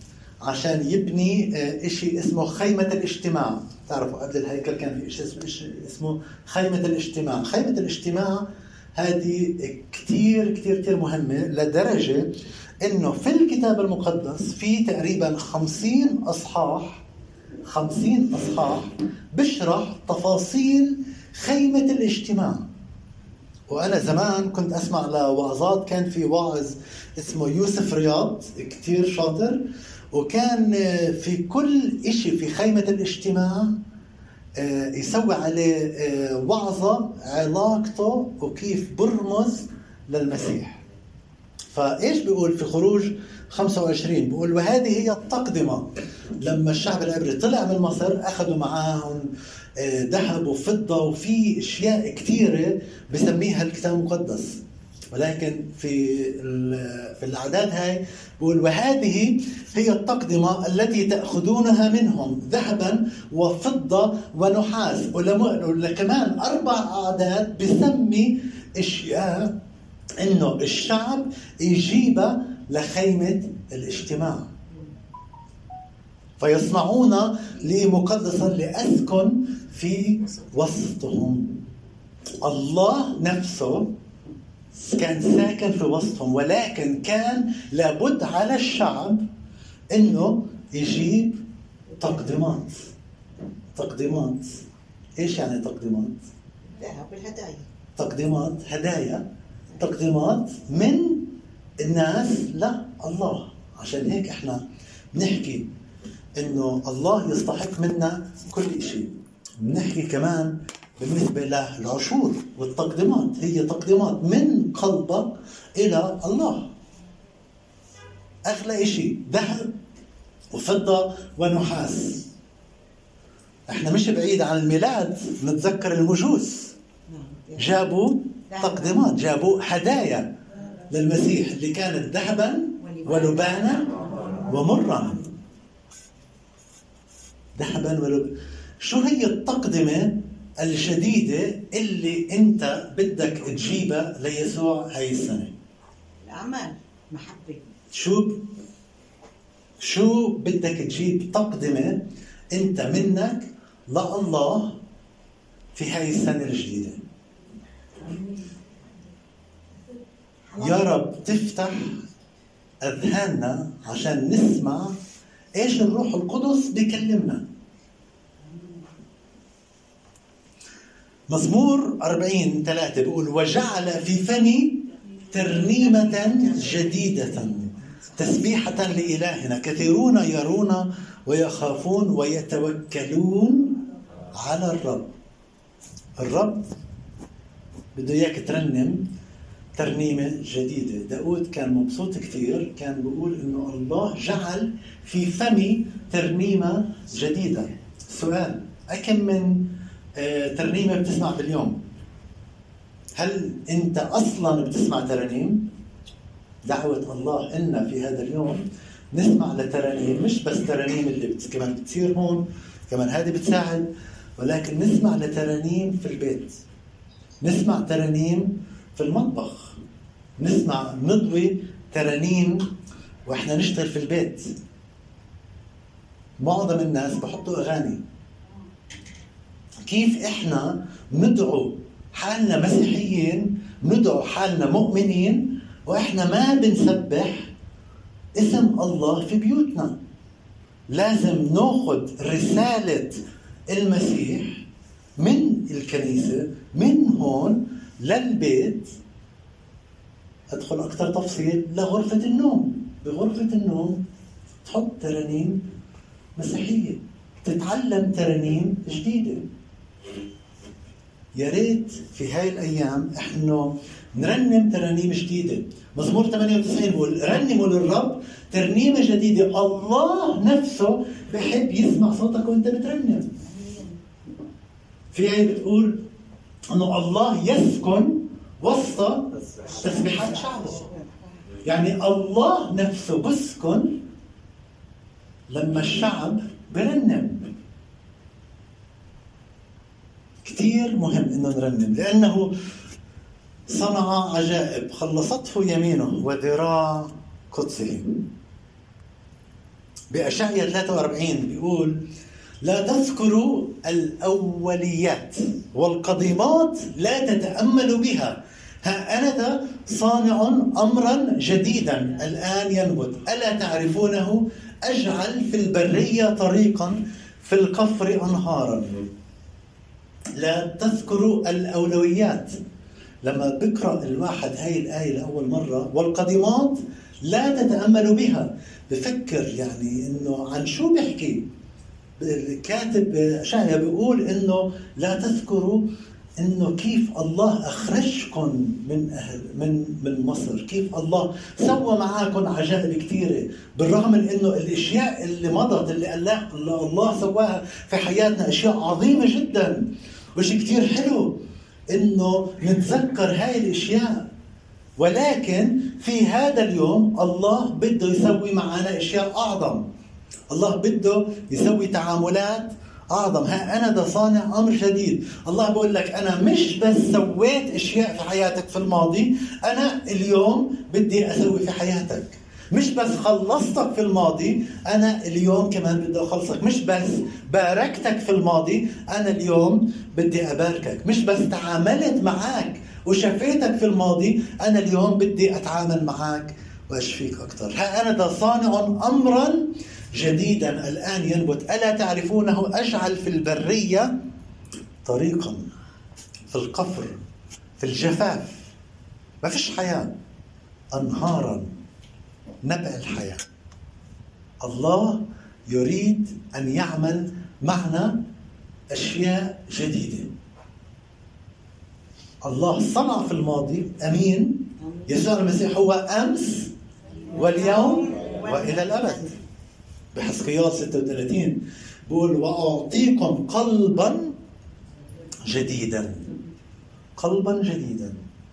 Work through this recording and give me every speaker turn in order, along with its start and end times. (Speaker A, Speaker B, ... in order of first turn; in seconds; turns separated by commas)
Speaker A: 0.4-17.0, Speaker A: 17.7-22.7, Speaker A: 23.7-33.8, Speaker A: 34.6-40.8, Speaker A: 41.7-54.6, Speaker A: 55.1-69.6, Speaker A: 70.2-74.5, Speaker A: 76.4-81.6, Speaker A: 82.4-83.9, Speaker A: 84.7-89.2, Speaker A: 89.9-91.4, Speaker A: 92.0-92.9, Speaker A: 93.8-94.6, Speaker A: 95.2-96.2, Speaker B: 96.6-97.7, Speaker A: 98.0-99.3, Speaker A: 99.8-104.6, Speaker A: 105.1-105.7, Speaker A: 106.4-116.7, Speaker A: 118.5-119.7, Speaker A: 120.5-122.3, Speaker A: 123.7-126.7, Speaker B: 127.1-127.8, Speaker A: 127.6-130.3, Speaker B: 128.5-129.0, Speaker A: 130.9-135.3, Speaker B: 132.8-133.7, Speaker A: 137.6-145.5, Speaker B: 146.2-147.7, Speaker A: 147.9-148.4, Speaker A: 149.8-154.8, Speaker A: 155.7-157.0, Speaker B: 158.0-158.7, Speaker B: 160.5-160.8, Speaker A: 160.6-162.0, Speaker A: 162.8-164.9, Speaker A: 165.6-167.4, Speaker B: 168.5-168.9, Speaker A: 171.3-183.8, Speaker B: 175.6-178.7, Speaker A: 184.3-185.1, Speaker A: 186.2-186.7, Speaker A: 187.9-189.1, Speaker A: 189.8-201.8, Speaker A: 203.2-205.7, Speaker A: 206.7-216.6, Speaker A: 217.4-219.8, Speaker A: 220.4-222.7, Speaker A: 223.3-224.5, Speaker A: 226.4-228.0, Speaker A: 229.8-237.5, Speaker A: 238.3-240.0, Speaker A: 240.9-244.6, Speaker A: 245.2-248.9, Speaker A: 250.5-254.0, Speaker A: 254.6-255.6, Speaker A: 256.4-259.4, Speaker A: 261.4-273.3, Speaker B: 273.5-273.9, Speaker A: 275.1-276.1, Speaker A: 276.7-280.9, Speaker B: 279.7-281.4, Speaker A: 281.6-284.0, Speaker A: 285.5-287.5, Speaker A: 290.4-292.5, Speaker A: 293.7-298.2, Speaker A: 300.1-302.0, Speaker A: 302.6-319.0, Speaker A: 320.4-322.6, Speaker A: 323.2-331.5, Speaker A: 332.2-335.9, Speaker A: 336.4-354.3, Speaker A: 355.0-359.9, Speaker A: 360.5-394.1, Speaker A: 395.1-395.7, Speaker A: 396.5-397.2, Speaker A: 397.8-398.7, Speaker A: 399.4-400.1, Speaker A: 400.9-401.7, Speaker A: 402.6-403.4, Speaker A: 404.6-408.2, Speaker A: 408.9-410.3, Speaker A: 412.4-416.7, Speaker B: 417.3-419.3, Speaker A: 417.3-419.4, Speaker A: 420.1-424.4, Speaker A: 425.5-426.3, Speaker A: 427.2-428.2